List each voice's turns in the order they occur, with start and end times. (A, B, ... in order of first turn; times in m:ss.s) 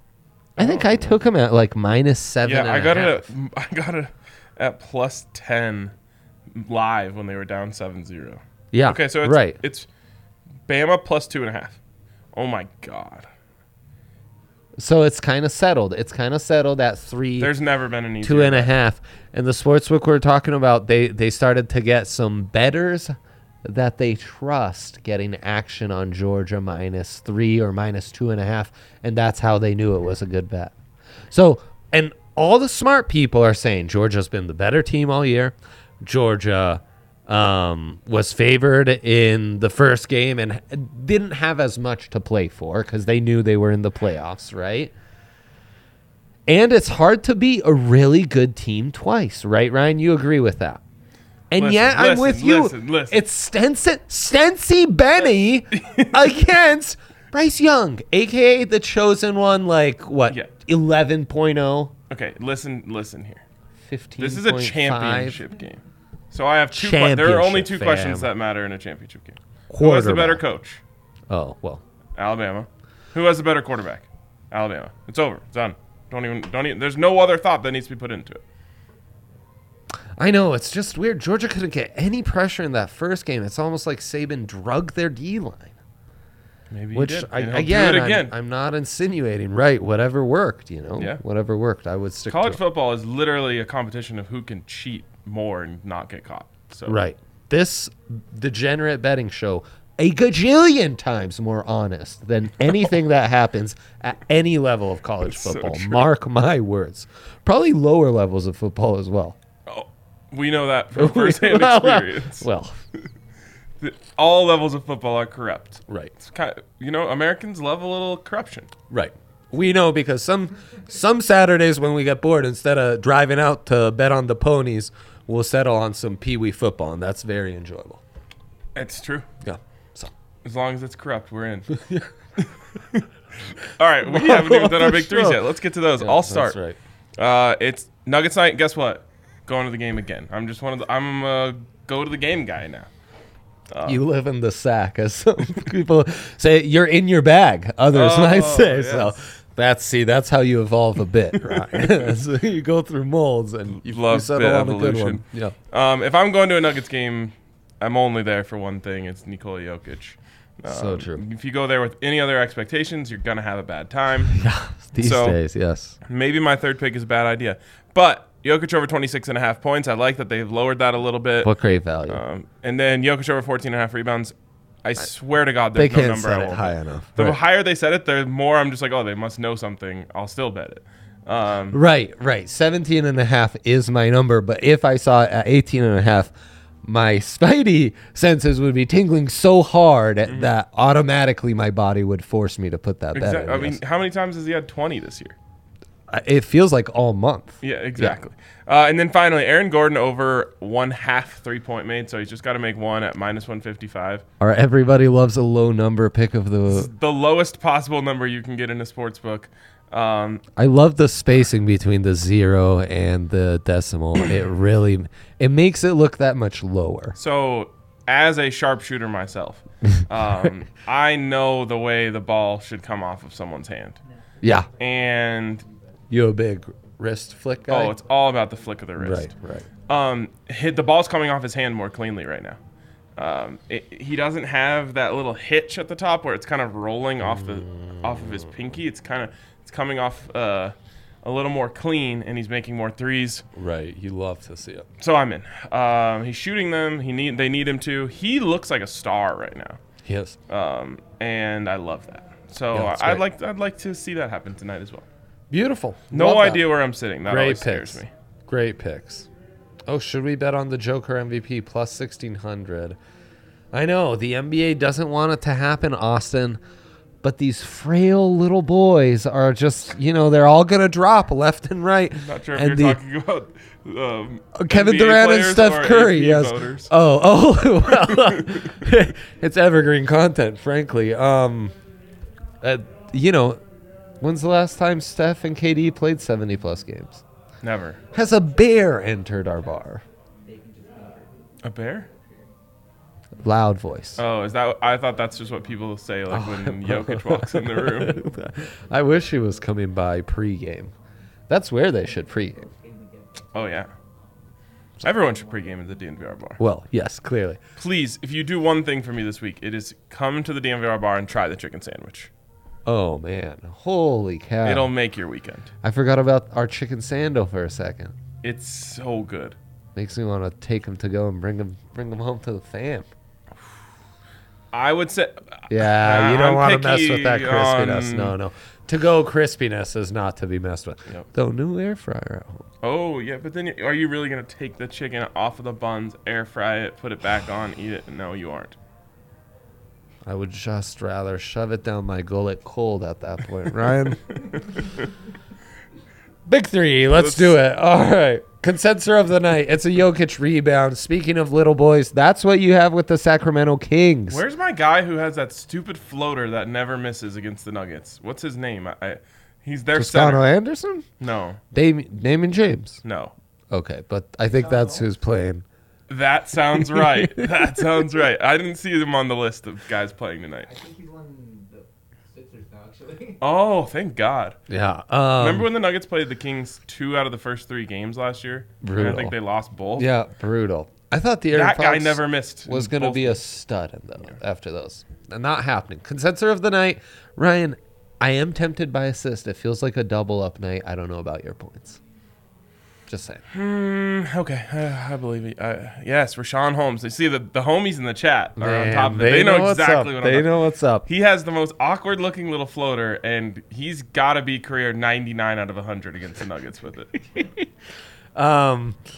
0:00.6-0:01.2 A
0:00.6-0:03.2 B
0:02.4-0:05.9 A
0:06.5-0:09.9 A
0:08.7-0:09.6 B
0:10.7-0:11.8 A
0:12.3-0:13.3 A
0:14.8-0:17.5 B
0:17.4-0:18.7 A
0:18.2-0:30.7 B
0:31.3-0:44.9 B
0:46.5-0:50.8 B
0:51.5-1:01.9 B
0:51.6-0:53.2 A
0:55.7-0:56.4 A
1:02.1-1:03.4 A
1:03.8-1:05.4 B
1:04.2-1:10.8 A
1:06.7-1:08.3 B
1:09.7-1:10.4 B
1:11.3-1:11.8 B
1:12.2-1:18.4 A
1:20.2-1:25.7 B
1:26.7-1:28.3 A
1:26.9-1:32.6 B
1:32.3-1:37.0 A
1:36.8-1:49.4 B
1:45.2-1:46.1 A
1:49.7-1:52.4 A
1:51.0-1:52.8 B
1:53.8-1:58.7 A
1:55.9-1:56.1 B
1:58.9-2:08.0 B
2:08.7-2:09.3 A
2:09.4-2:10.1 B
2:10.4-2:11.7 A
2:11.7-2:12.1 B
2:12.4-2:16.6 A
2:14.0-2:15.4 B
2:16.0-2:16.8 B
2:17.2-2:22.9 A
2:23.7-2:24.0 A
2:23.8-2:35.5 B
2:27.9-2:29.2 A
2:31.4-2:32.1 A
2:33.8-2:44.3 A
2:40.6-2:41.2 B
2:44.3-2:46.0 B
2:45.0-2:45.4 A
2:46.0-2:51.5 A
2:51.4-2:52.2 B
2:52.1-3:01.8 A
2:55.7-2:57.4 B
3:01.7-3:06.3 B
3:06.8-3:13.8 B
3:10.2-3:10.5 A
3:13.1-3:15.4 A
3:16.1-3:18.2 B
3:17.6-3:24.2 A
3:24.4-3:26.9 B
3:26.7-3:30.4 A
3:30.6-3:37.2 B
3:37.2-3:44.0 A
3:44.0-3:46.0 C
3:44.4-3:44.7 B
3:44.8-3:45.6 A
3:46.1-3:48.0 B
3:47.5-3:49.2 C
3:47.7-3:49.3 A
3:49.0-3:49.7 B
3:49.9-3:52.6 A
3:53.2-4:03.4 A
3:57.2-3:58.5 B
4:03.5-4:04.9 B
4:05.0-4:09.8 A
4:10.0-4:10.4 B
4:10.5-4:15.1 A
4:12.7-4:13.2 B
4:15.5-4:16.7 B
4:16.1-4:18.1 A
4:17.2-4:19.3 B
4:19.8-4:23.0 B
4:23.7-4:26.6 B
4:27.2-4:33.0 B
4:32.2-4:36.9 A
4:34.5-4:41.7 B
4:37.9-4:38.7 A
4:42.6-4:43.6 B
4:44.2-4:47.2 B
4:47.6-4:48.0 A
4:48.1-4:50.0 B
4:50.4-4:52.6 C
4:51.6-4:52.1 A
4:53.4-4:54.2 B
4:54.2-4:58.2 A
4:56.3-5:00.9 B
5:01.5-5:02.7 B
5:02.0-5:04.4 C
5:03.5-5:03.9 A
5:05.0-5:06.6 A
5:05.0-5:06.0 C
5:06.6-5:07.6 B
5:07.8-5:12.3 A
5:12.8-5:14.9 B
5:14.6-5:15.7 A
5:15.8-5:18.1 B
5:18.4-5:19.6 A
5:19.9-5:23.1 B
5:24.7-5:28.3 A
5:25.7-5:32.6 B
5:32.8-5:38.8 A
5:40.2-5:44.3 B
5:44.5-5:45.0 A
5:46.4-5:54.4 B
5:47.1-5:47.6 A
5:54.3-6:00.4 A
5:59.9-6:01.0 B
6:01.2-6:01.6 A
6:01.7-6:03.0 B
6:03.0-6:03.3 A
6:03.7-6:05.6 B
6:04.5-6:05.1 C
6:06.1-6:10.7 A
6:06.7-6:07.9 B
6:10.6-6:13.4 C
6:13.4-6:14.6 A
6:14.7-6:15.7 B
6:15.4-6:20.1 A
6:18.8-6:19.3 B
6:20.0-6:32.0 B
6:21.5-6:23.4 A
6:33.1-6:33.4 B
6:33.5-6:40.5 A
6:38.6-6:41.1 B
6:41.0-6:47.1 A
6:47.3-6:47.7 B
6:48.3-6:49.0 B